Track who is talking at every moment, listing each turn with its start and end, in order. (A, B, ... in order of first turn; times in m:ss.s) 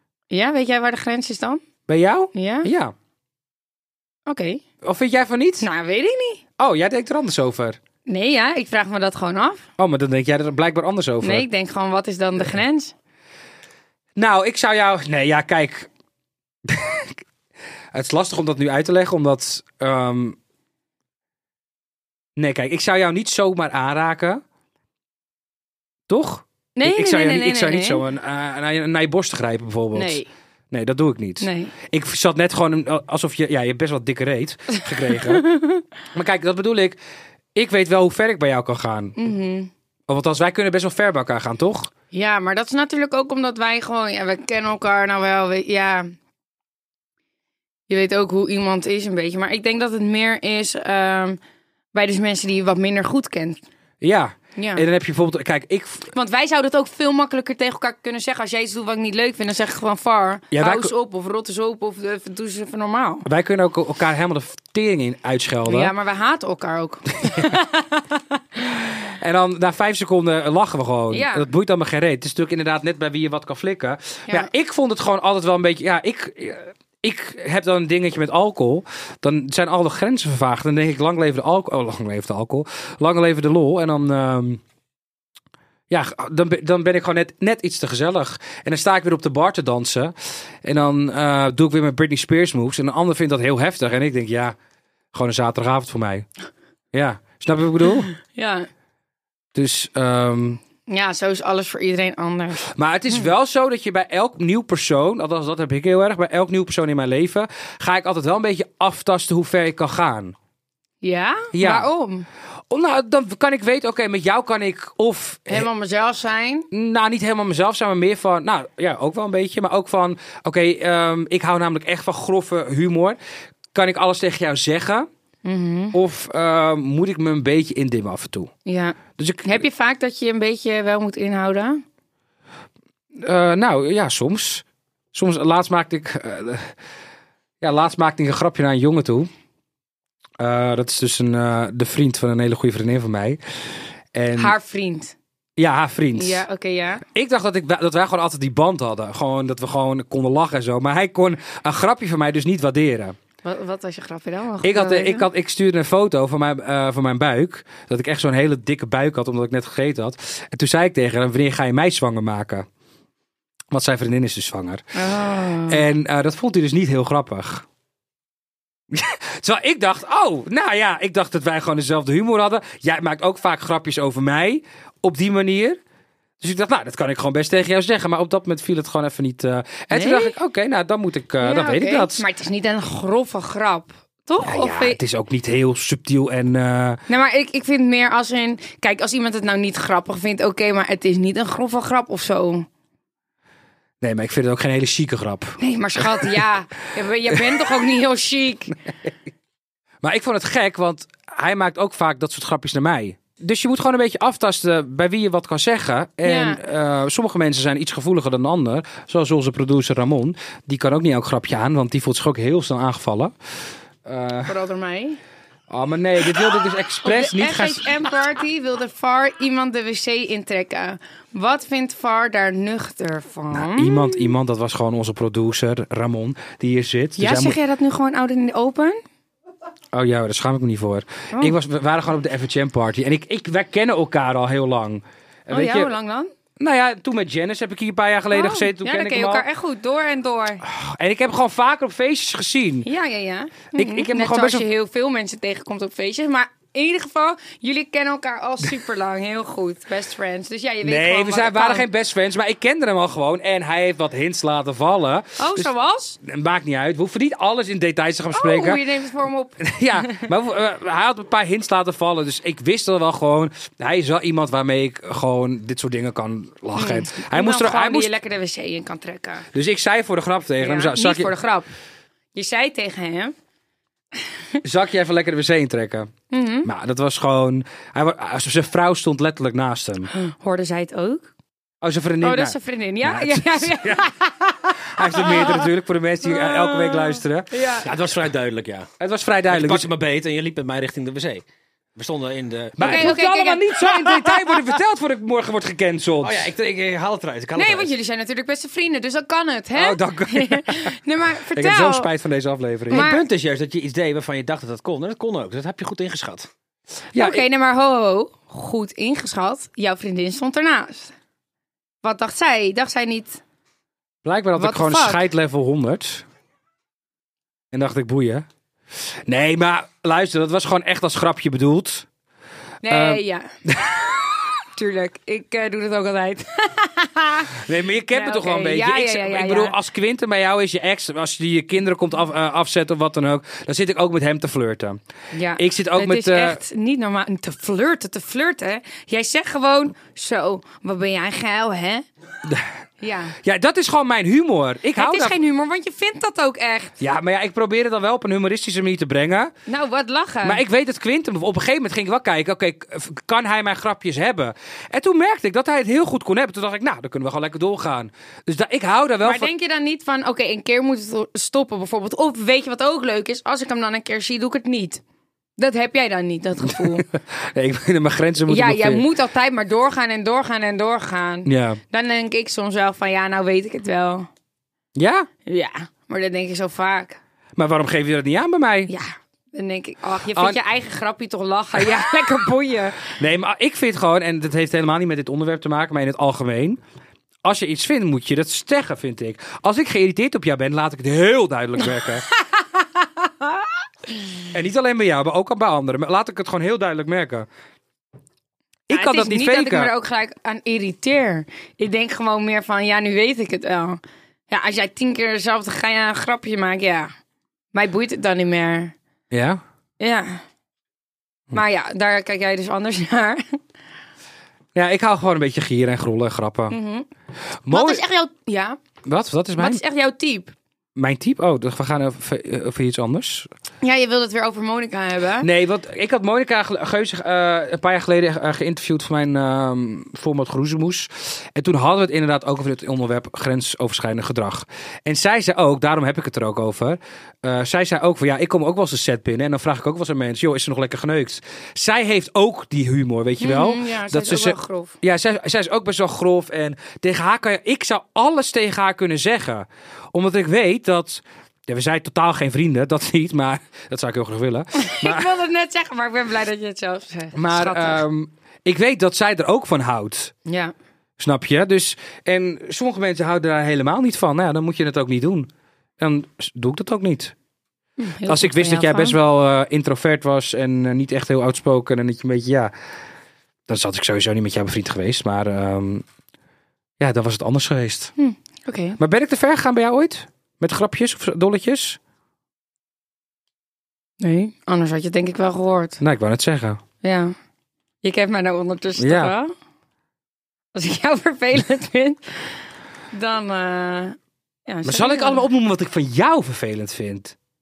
0:00.3-0:01.6 A
0:01.9-0:02.9 B
0:02.3-0:02.7 A
0:04.3-0:04.6 A
0:04.8-0:05.7 B
0:05.6-0:06.4 A
0:06.6-0:07.8 B
0:08.1-0:09.6 A
0:09.8-0:11.5 B
0:11.2-0:12.9 A
0:14.2-0:15.9 B
0:16.6-0:17.2 B
0:17.9-0:20.4 B
0:22.4-0:24.4 B
0:26.1-0:30.2 B
0:26.8-0:28.0 A
0:29.9-0:30.3 A
0:30.7-0:35.5 B
0:31.4-0:31.7 A
0:35.3-0:35.8 A
0:36.1-0:37.0 B
0:37.6-0:39.2 B
0:39.2-0:39.7 A
0:40.1-0:41.9 B
0:42.1-0:46.1 A
0:47.9-0:51.4 A
0:51.9-0:53.6 A
0:54.0-0:56.1 B
0:54.6-0:54.8 A
0:56.1-1:03.3 A
1:00.5-1:00.9 B
1:03.2-1:05.9 B
1:05.7-1:08.2 A
1:09.2-1:24.6 B
1:11.1-1:11.5 A
1:25.9-1:34.6 B
1:35.1-1:36.3 B
1:36.9-1:38.1 B
1:38.1-1:38.7 A
1:39.5-1:40.6 B
1:40.9-1:43.2 A
1:42.7-1:50.4 B
1:51.0-1:52.3 A
1:51.5-1:51.9 B
1:52.7-1:55.7 B
1:55.5-1:56.7 A
1:56.7-2:03.2 B
2:03.7-2:05.1 B
2:05.4-2:06.0 A
2:05.9-2:08.5 B
2:08.7-2:11.8 A
2:09.2-2:09.6 B
2:13.1-2:16.8 B
2:17.6-2:19.3 B
2:20.4-2:23.4 B
2:24.1-2:24.6 B
2:24.4-2:25.2 A
2:25.6-2:26.4 B
2:26.2-2:27.0 A
2:27.1-2:33.2 B
2:33.4-2:35.3 A
2:34.6-2:42.7 B
2:43.7-2:44.8 B
2:45.0-2:45.8 A
2:45.7-2:47.7 B
2:48.9-2:55.8 B
2:56.4-3:02.2 B
2:59.9-3:00.3 A
3:01.4-3:05.0 A
3:04.4-3:07.0 B
3:07.1-3:12.7 A
3:14.0-3:16.4 B
3:15.6-3:18.8 A
3:17.3-3:17.6 B
3:20.0-3:33.3 B
3:26.2-3:26.6 A
3:34.0-3:34.5 B
3:34.5-3:35.2 A
3:35.7-3:38.0 B
3:37.0-3:44.3 A
3:43.5-3:47.6 B
3:47.2-3:49.0 A
3:49.9-3:55.9 B
3:55.5-3:56.3 A
3:56.6-3:59.4 B
3:58.3-4:00.6 A
4:00.6-4:02.9 B
4:02.8-4:11.9 A
4:03.7-4:04.6 B
4:10.8-4:15.7 B
4:15.4-4:16.2 A
4:16.2-4:18.8 B
4:18.3-4:20.3 A
4:19.6-4:28.1 B
4:26.8-4:29.5 A
4:29.5-4:31.3 B
4:30.6-4:31.7 A
4:32.4-4:33.3 A
4:34.6-4:36.1 B
4:36.3-4:36.7 A
4:36.6-4:40.1 B
4:40.1-4:41.3 A
4:41.8-4:47.6 B
4:42.2-4:45.7 A
4:46.2-4:47.9 A
4:47.8-4:48.9 C
4:49.0-4:49.9 B
4:49.5-4:51.4 C
4:52.0-4:53.2 C
4:52.8-4:56.4 B
4:52.8-4:54.3 A
4:56.2-4:57.9 C
4:57.6-5:02.1 A
4:59.7-5:00.9 B
5:01.5-5:03.2 B
5:02.9-5:06.5 C
5:02.9-5:03.2 A
5:07.1-5:07.4 B
5:07.2-5:11.1 A
5:12.0-5:13.4 A
5:14.2-5:16.2 B
5:14.6-5:15.3 A
5:17.7-5:18.5 B
5:19.3-5:22.1 B
5:22.8-5:23.5 A
5:22.9-5:24.3 B
5:24.8-5:29.8 A
5:27.6-5:35.0 B
5:35.3-5:42.1 A
5:35.6-5:36.6 B
5:42.5-5:42.7 B
5:43.0-5:43.4 A
5:43.4-5:45.4 B
5:45.0-5:47.0 A
5:47.0-5:49.5 B
5:49.7-5:50.6 A
5:50.4-5:59.5 B
5:59.2-6:05.0 A
6:05.6-6:07.1 A
6:06.7-6:09.1 B
6:08.5-6:14.3 A
6:11.5-6:11.8 B
6:15.0-6:15.3 B
6:15.5-6:17.2 A
6:17.6-6:18.9 B
6:18.9-6:23.1 A
6:20.3-6:20.6 B
6:21.8-6:22.0 B
6:23.1-6:26.8 B
6:27.4-6:32.3 B
6:34.5-6:37.5 B
6:38.9-6:39.9 B
6:38.9-6:47.1 A
6:47.7-6:49.0 A
6:49.3-6:49.6 B
6:50.0-6:50.4 A
6:51.5-6:53.6 A
6:54.8-6:56.8 B
6:56.7-6:57.1 A
6:57.6-6:58.0 B
6:57.7-6:58.8 A
6:59.0-6:59.8 B
6:59.6-7:00.6 A
7:01.0-7:03.5 B
7:03.8-7:05.5 A
7:05.4-7:35.3 B
7:23.4-7:25.0 A
7:34.8-7:38.0 A
7:37.4-7:40.3 B
7:40.5-7:40.7 A
7:41.2-7:47.3 B
7:48.0-7:49.2 A
7:48.3-7:52.7 B
7:53.7-7:56.0 B
7:57.0-7:58.1 B
7:58.2-7:59.0 A
7:59.0-8:02.0 B
8:04.2-8:06.0 A
8:06.0-8:06.8 B
8:07.0-8:07.4 A
8:08.0-8:09.5 A
8:09.0-8:09.3 B
8:10.8-8:12.3 A
8:13.1-8:15.5 A
8:14.8-8:17.4 B